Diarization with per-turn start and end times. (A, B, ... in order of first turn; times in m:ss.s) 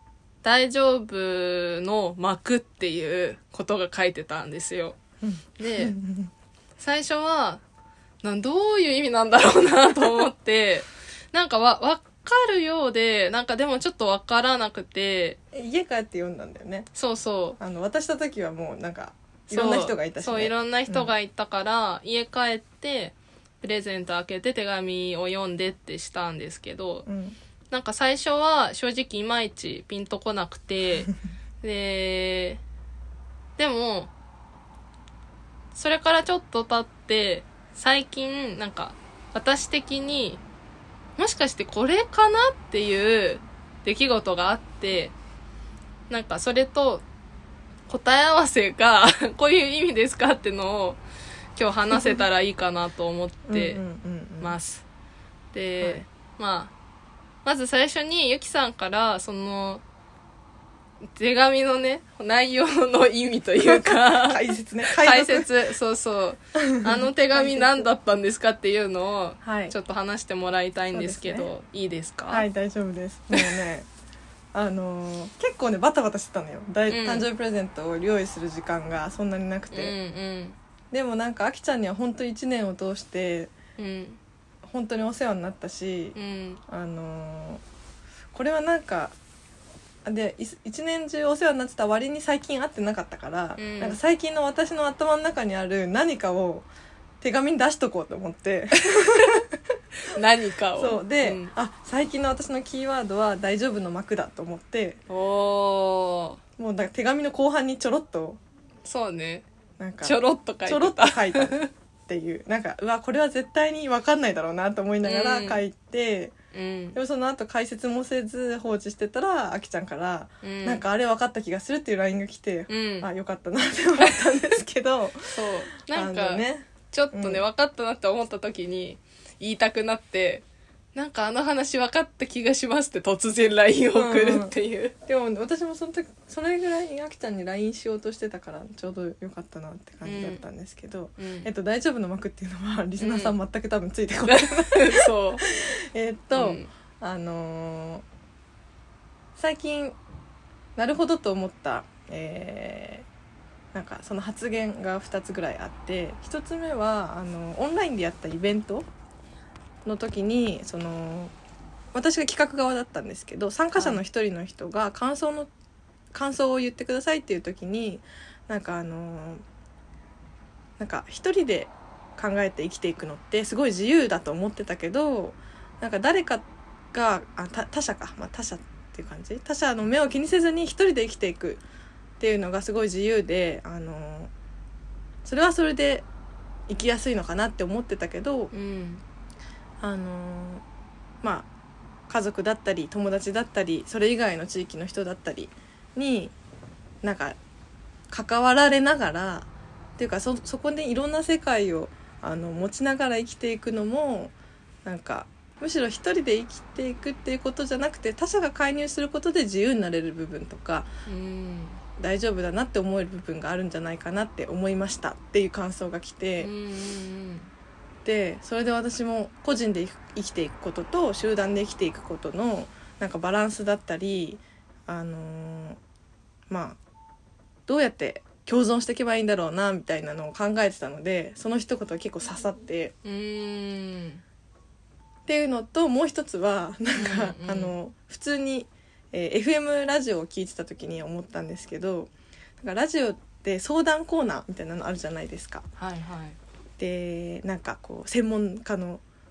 0:00.4-0:05.0 A
0:05.2-0:06.3 B
0:05.6-0:06.0 A
0:06.8-0:07.6 A
0:08.2-0:15.4 A
0:15.5-0:16.9 B
0:17.0-0:17.6 A
0:17.6-0:21.1 B
0:19.5-0:27.1 A
0:27.1-0:27.4 B
0:27.7-0:32.6 A
0:33.6-0:34.1 A
0:35.7-0:40.4 A
0:41.2-0:45.1 A
0:46.1-0:47.0 A
0:47.9-0:51.0 A
0:51.6-0:53.8 A
0:51.9-0:52.2 B
0:53.5-0:54.6 B
0:54.4-0:54.8 A
0:55.5-0:56.7 A
0:57.4-0:59.8 A
1:01.2-1:12.5 A
1:03.6-1:05.5 B
1:06.6-1:07.9 B
1:09.4-1:09.8 B
1:10.9-1:11.5 B
1:12.3-1:13.9 B
1:13.3-1:13.6 A
1:14.5-1:20.0 B
1:16.9-1:17.3 A
1:19.7-1:20.6 A
1:20.9-1:23.5 B
1:23.8-1:24.2 A
1:24.6-1:26.2 B
1:26.2-1:26.6 A
1:26.7-1:27.6 B
1:28.3-1:29.2 B
1:30.0-1:36.7 B
1:33.6-1:34.0 A
1:37.2-1:39.6 B
1:39.0-1:39.4 A
1:40.0-1:41.5 A
1:40.8-1:45.0 B
1:45.1-1:46.4 A
1:46.6-1:48.4 B
1:48.8-1:49.4 A
1:49.8-1:56.3 B
1:50.0-1:51.7 A
1:55.0-1:55.6 A
1:56.5-1:57.0 A
1:56.9-2:07.4 B
2:00.4-2:00.8 A
2:02.7-2:03.1 A
2:04.0-2:04.4 A
2:05.3-2:10.4 A
2:11.0-2:15.0 A
2:14.0-2:14.5 B
2:15.0-2:28.0 B
2:20.0-2:20.4 A
2:21.2-2:21.5 A
2:23.0-2:23.4 A
2:24.3-2:25.4 A
2:26.3-2:26.7 A
2:29.4-2:30.0 B
2:30.8-2:33.1 B
2:33.7-2:38.9 B
2:39.8-2:41.3 B
2:41.9-2:45.5 B
2:43.8-2:44.0 A
2:46.1-2:49.4 B
2:50.8-3:01.6 B
3:02.2-3:04.3 B
3:05.2-3:06.1 B
3:06.7-3:08.5 B
3:08.5-3:09.0 A
3:09.8-3:10.6 B
3:11.2-3:11.5 B
3:12.1-3:16.3 B
3:17.0-3:17.4 B
3:18.1-3:24.3 B
3:24.8-3:30.9 B
3:31.1-3:31.8 A
3:32.0-3:36.5 B
3:36.4-3:37.5 A
3:38.0-3:45.8 B
3:46.5-3:46.8 B
3:47.7-3:52.9 B
3:53.0-3:54.2 A
3:55.3-4:05.6 B
3:57.0-3:57.8 A
4:05.8-4:06.4 A
4:06.8-4:09.0 B